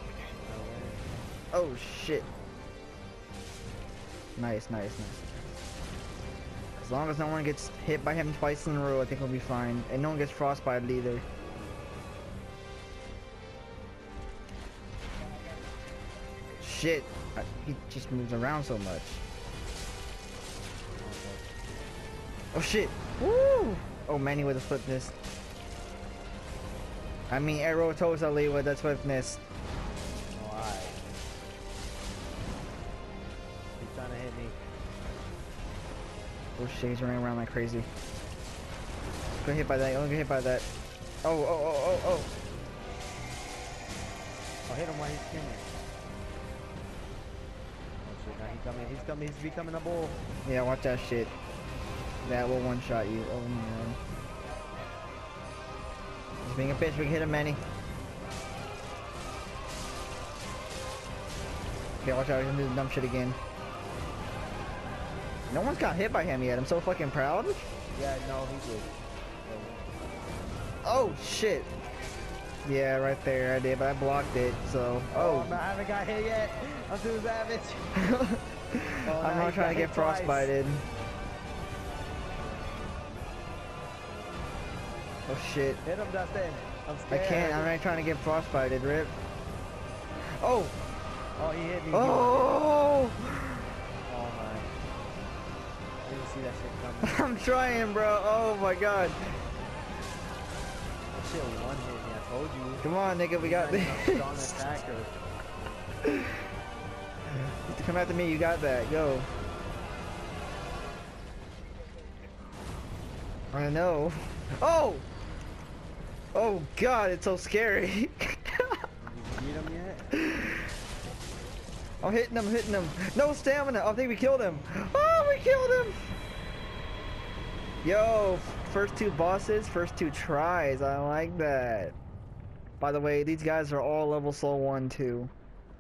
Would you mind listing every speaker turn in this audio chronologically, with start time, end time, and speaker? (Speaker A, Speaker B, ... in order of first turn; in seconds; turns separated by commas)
Speaker A: 0.4-1.1, Speaker B: 1.5-2.3, Speaker B: 4.4-5.3, Speaker B: 6.8-11.2, Speaker B: 16.6-19.2, Speaker A: 21.0-21.5, Speaker B: 22.5-25.1, Speaker B: 27.3-29.4, Speaker A: 30.3-31.0, Speaker A: 33.8-34.6, Speaker B: 36.6-37.9, Speaker B: 39.4-40.7, Speaker B: 41.2-42.3, Speaker A: 44.7-45.7, Speaker A: 48.0-50.2, Speaker B: 50.5-51.3, Speaker B: 52.2-54.0, Speaker B: 56.4-57.6, Speaker B: 62.0-63.4, Speaker B: 65.5-67.5, Speaker A: 67.9-68.9, Speaker A: 69.5-70.0, Speaker B: 70.8-71.7, Speaker B: 72.7-75.6, Speaker A: 75.1-77.9, Speaker B: 78.0-80.8, Speaker A: 79.1-80.5, Speaker B: 85.3-85.8, Speaker A: 85.8-87.7, Speaker B: 87.1-89.1, Speaker B: 90.4-90.8, Speaker A: 91.4-92.6, Speaker B: 91.9-93.6, Speaker A: 94.1-94.7, Speaker A: 96.0-97.3, Speaker B: 97.0-99.2, Speaker A: 101.1-105.8, Speaker B: 102.8-104.3, Speaker B: 107.7-109.3, Speaker B: 113.5-115.0, Speaker B: 116.3-118.7, Speaker A: 119.0-120.2, Speaker B: 120.2-120.6, Speaker B: 122.0-125.9, Speaker B: 127.8-131.9, Speaker B: 132.8-135.3